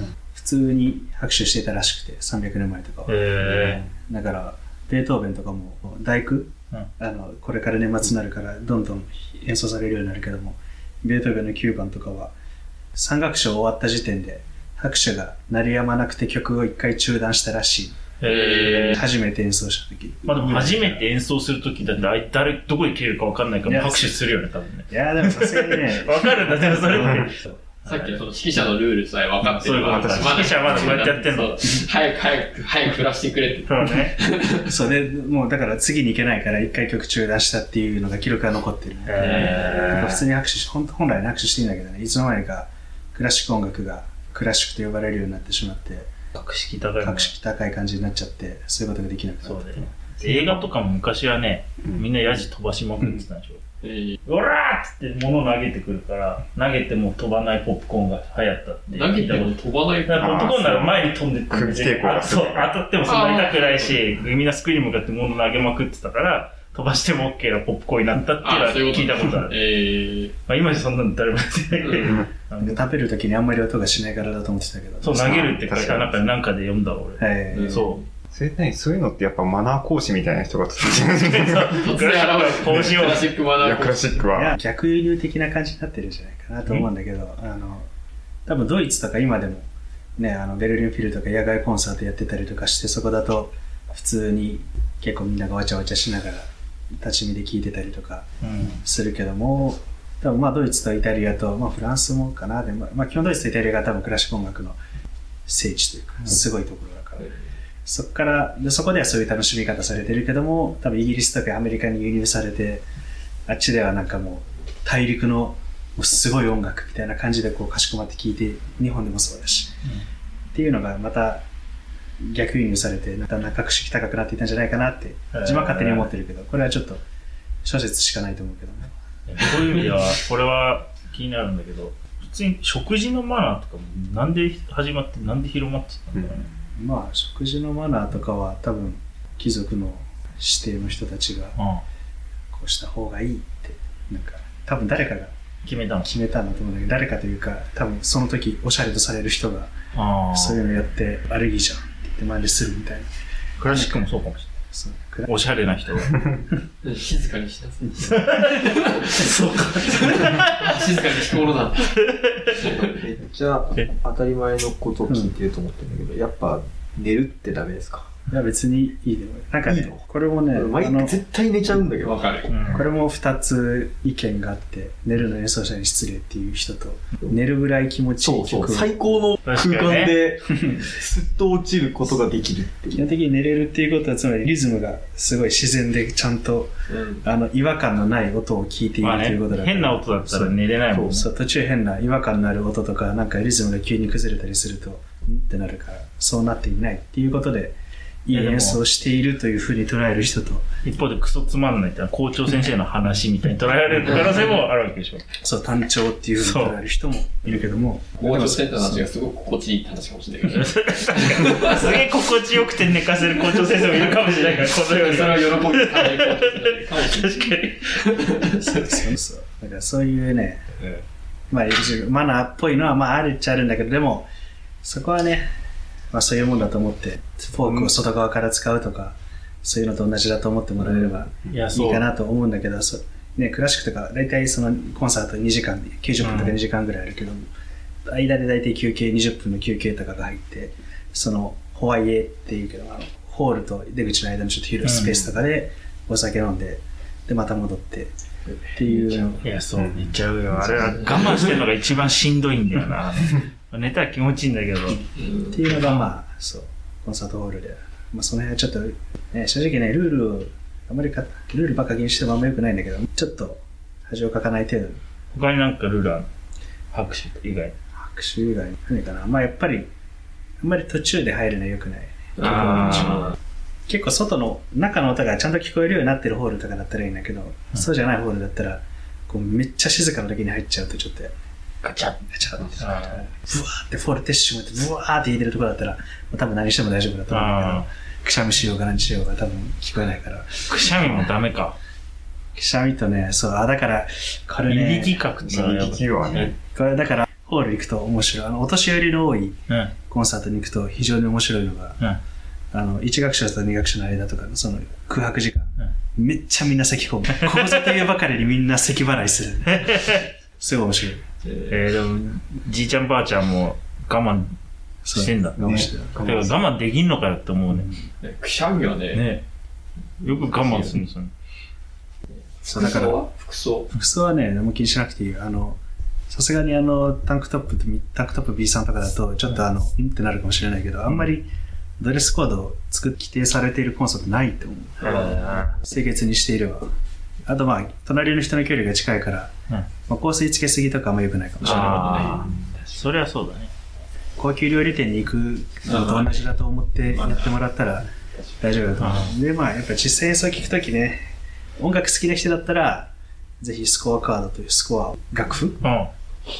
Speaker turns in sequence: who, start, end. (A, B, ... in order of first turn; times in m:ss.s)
0:00.4-0:12.3 A
0:03.1-0:03.8 B
0:13.0-0:18.0 A
0:18.2-0:19.0 B
0:18.2-0:19.0 C
0:18.8-0:21.0 A
0:20.2-0:28.2 B
0:23.6-0:24.3 A
0:24.9-0:27.6 A
0:27.8-0:34.6 C
0:29.6-0:31.6 B
0:29.8-0:31.1 D
0:33.7-0:34.2 B
0:34.6-0:46.1 A
0:39.0-0:40.2 B
0:39.2-0:40.0 C
0:46.3-0:47.3 B
0:47.0-0:49.9 A
0:49.4-0:53.6 B
0:50.2-0:50.7 D
0:53.8-0:54.2 C
0:54.2-1:09.6 B
0:58.9-1:00.5 C
1:00.2-1:02.8 D
1:03.1-1:04.0 C
1:08.4-1:10.3 C
1:10.5-1:12.8 B
1:12.6-1:15.4 A
1:15.0-1:18.0 B
1:15.2-1:16.2 D
1:17.2-1:17.8 A
1:17.6-1:17.9 C
1:18.3-1:21.9 D
1:21.0-1:23.3 B
1:21.7-1:24.2 C
1:22.8-1:24.6 D
1:24.3-1:27.9 A
1:28.5-1:44.8 A
1:38.4-1:38.8 B
1:45.5-1:47.3 A
1:47.9-1:52.8 A
1:53.5-1:59.7 A
2:00.5-2:01.4 A
2:02.2-2:07.0 A
2:05.3-2:06.1 B
2:07.6-2:08.9 A
2:09.3-2:16.5 B
2:16.2-2:16.4 D
2:16.8-2:21.6 A
2:21.6-2:21.8 B
2:22.5-2:25.3 A
2:25.6-2:26.1 B
2:26.0-2:29.7 A
2:29.9-2:30.6 B
2:30.3-2:33.1 A
2:33.6-2:34.5 B
2:33.7-2:34.0 A
2:34.7-2:35.3 A
2:35.3-2:36.2 B
2:36.8-2:39.3 C
2:38.0-2:40.8 B
2:39.9-2:42.0 C
2:42.0-2:42.6 B
2:42.6-2:48.1 E
2:48.3-2:51.2 A
2:49.7-2:52.5 E
2:52.0-2:52.5 C
2:52.5-2:52.8 B
2:52.7-2:59.0 A
2:58.2-3:03.0 E
2:59.4-3:00.2 B
3:03.0-3:20.6 A
3:06.9-3:07.2 C
3:09.0-3:11.3 B
3:18.3-3:18.8 B
3:20.8-3:25.2 B
3:25.4-3:29.1 A
3:26.4-3:26.8 B
3:28.2-3:31.9 C
3:30.5-3:38.0 B
3:34.2-3:39.0 C
3:38.6-3:40.7 A
3:41.5-3:44.3 A
3:44.8-3:45.5 A
3:46.1-3:57.5 A
3:47.6-3:47.9 B
3:51.5-3:52.0 B
3:56.2-3:56.6 B
3:58.1-4:08.1 A
4:04.8-4:05.3 B
4:08.7-4:09.4 A
4:08.8-4:09.4 C
4:09.4-4:15.0 B
4:09.8-4:10.1 D
4:15.2-4:15.5 C
4:15.5-4:25.0 A
4:15.8-4:16.1 B
4:25.3-4:26.3 B
4:26.9-4:27.7 B
4:28.0-4:29.9 A
4:30.6-4:33.3 A
4:32.4-4:33.4 C
4:32.4-4:33.2 B
4:33.9-4:41.3 A
4:41.8-4:42.2 B
4:42.3-4:50.7 A
4:42.8-4:43.2 B
4:47.3-4:47.8 B
4:50.7-4:51.8 B
4:52.6-4:55.3 A
4:54.7-4:56.5 B
4:55.4-4:56.6 D
4:56.7-5:02.0 A
5:02.7-5:11.2 A
5:09.7-5:10.3 B
5:11.4-5:11.8 C
5:11.7-5:14.6 B
5:15.0-5:16.2 A
5:15.1-5:17.9 B
5:15.6-5:16.6 D
5:18.2-5:19.3 C
5:19.1-5:19.4 B
5:20.2-5:21.3 B
5:20.3-5:21.0 C
5:22.6-5:23.9 C
5:22.7-5:23.3 A
5:23.9-5:36.9 A
5:35.0-5:35.8 B
5:37.5-5:39.5 A
5:40.1-5:42.4 A
5:41.6-5:43.7 B
5:41.6-5:43.1 C
5:44.4-5:48.1 A
5:45.8-5:46.4 C
5:47.1-5:47.5 C
5:48.6-5:51.2 A
5:49.0-5:49.3 B
5:51.8-5:53.1 A
5:53.6-5:55.8 A
5:55.8-5:56.1 B